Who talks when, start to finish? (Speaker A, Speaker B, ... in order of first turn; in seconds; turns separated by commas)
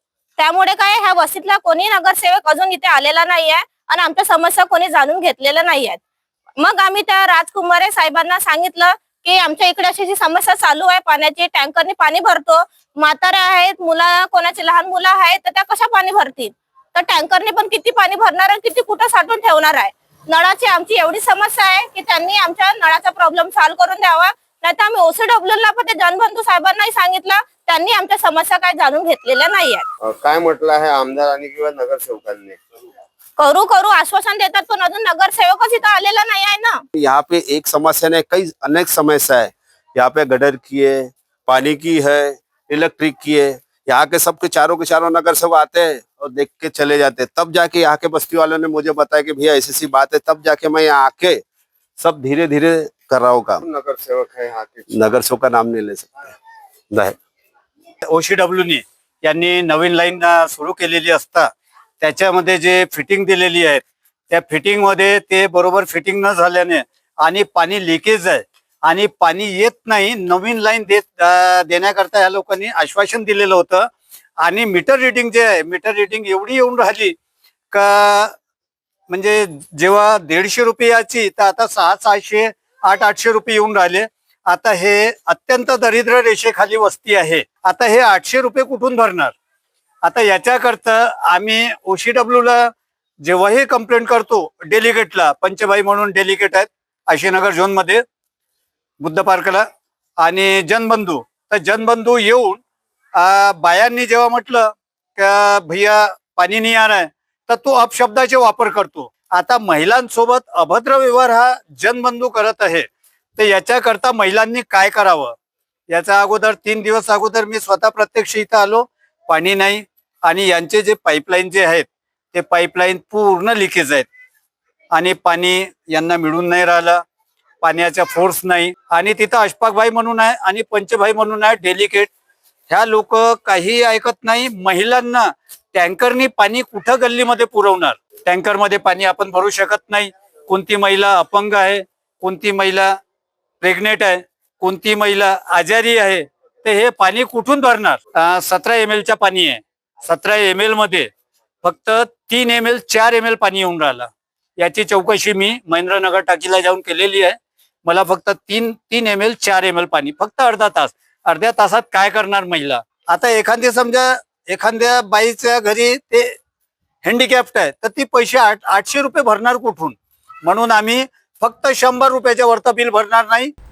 Speaker A: 0.4-6.0, Speaker A: 6.6-29.9, Speaker B: 30.0-32.6, Speaker A: 33.4-36.8, Speaker C: 37.0-51.4, Speaker C: 52.0-53.7, Speaker B: 53.7-54.9, Speaker C: 54.9-56.3, Speaker D: 58.0-73.9, Speaker D: 74.4-77.2, Speaker D: 77.7-78.4, Speaker D: 79.1-89.3, Speaker D: 90.0-98.0, Speaker D: 99.0-99.7, Speaker D: 100.2-102.6, Speaker D: 103.2-115.3, Speaker D: 115.9-124.1, Speaker D: 124.9-127.0, Speaker D: 127.6-132.1, Speaker D: 132.7-142.9, Speaker D: 143.6-151.1, Speaker D: 151.6-166.4, Speaker D: 167.0-173.5